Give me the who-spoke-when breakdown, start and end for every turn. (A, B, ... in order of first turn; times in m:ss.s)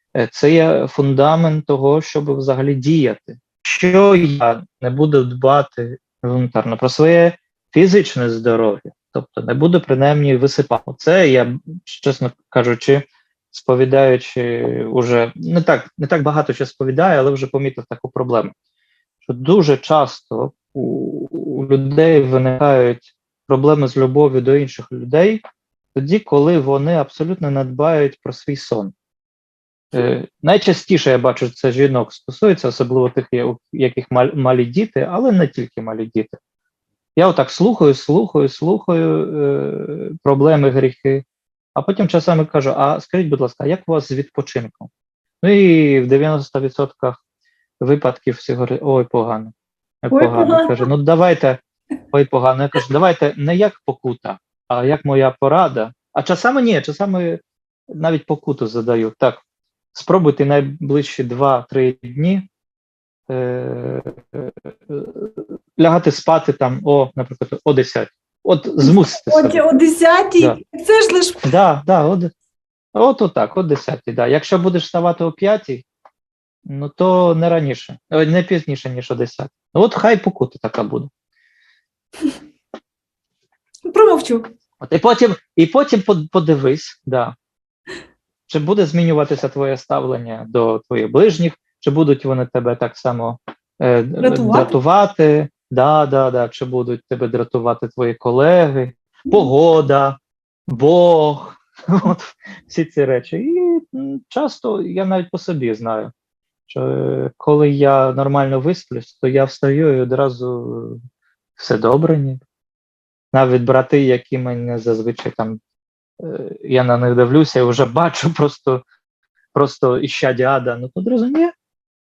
0:00.2-0:18.5 A
0:19.2-0:25.4 A
0:26.0-0:28.9 A
0:29.9-0:36.4 A
0:37.2-0:41.2 A
0:41.8-0:44.9 A
0:45.4-0:47.2 A
0:47.8-0:57.4 A
0:50.1-0:50.9 B
0:57.9-0:59.4 A
0:59.9-1:02.5 A
1:03.3-1:09.6 A
1:08.8-1:11.4 B
1:11.4-1:12.3 A
1:13.0-1:15.8 A
1:16.7-1:21.1 A
1:23.9-1:24.5 B
1:24.8-1:27.3 A
1:28.5-1:46.1 A
1:34.2-1:34.8 B
1:46.7-1:51.0 A
1:51.6-1:52.4 A
1:53.3-1:55.6 A
1:56.2-1:58.8 A
1:59.5-2:01.5 A